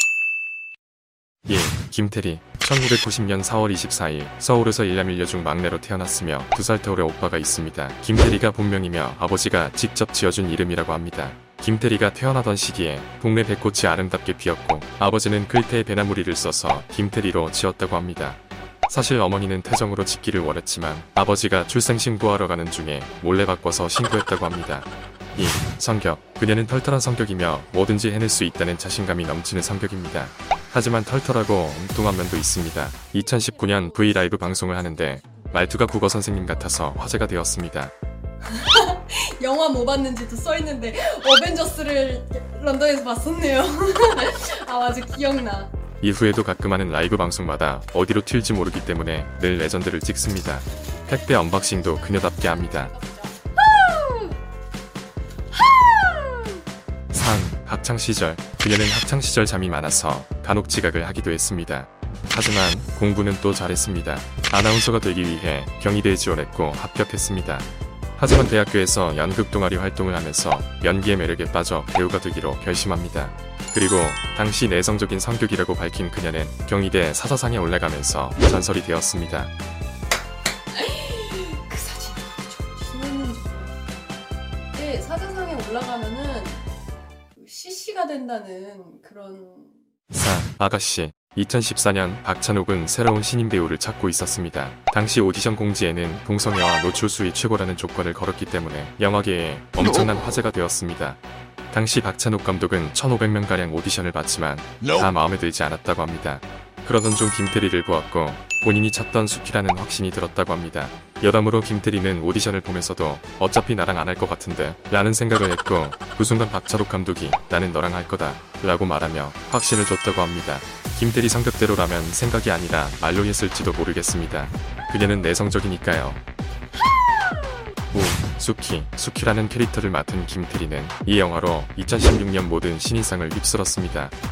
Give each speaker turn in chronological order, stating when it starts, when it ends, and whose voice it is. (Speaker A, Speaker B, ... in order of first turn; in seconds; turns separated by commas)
Speaker A: 1.4-37.9, Speaker B: 35.2-35.5, Speaker B: 38.4-45.7, Speaker A: 46.0-52.9, Speaker B: 52.1-54.4, Speaker B: 55.5-56.6, Speaker A: 57.1-79.5, Speaker B: 80.7-83.7, Speaker B: 84.7-86.6, Speaker B: 87.3-89.8, Speaker A: 90.1-126.2, Speaker A: 127.9-134.1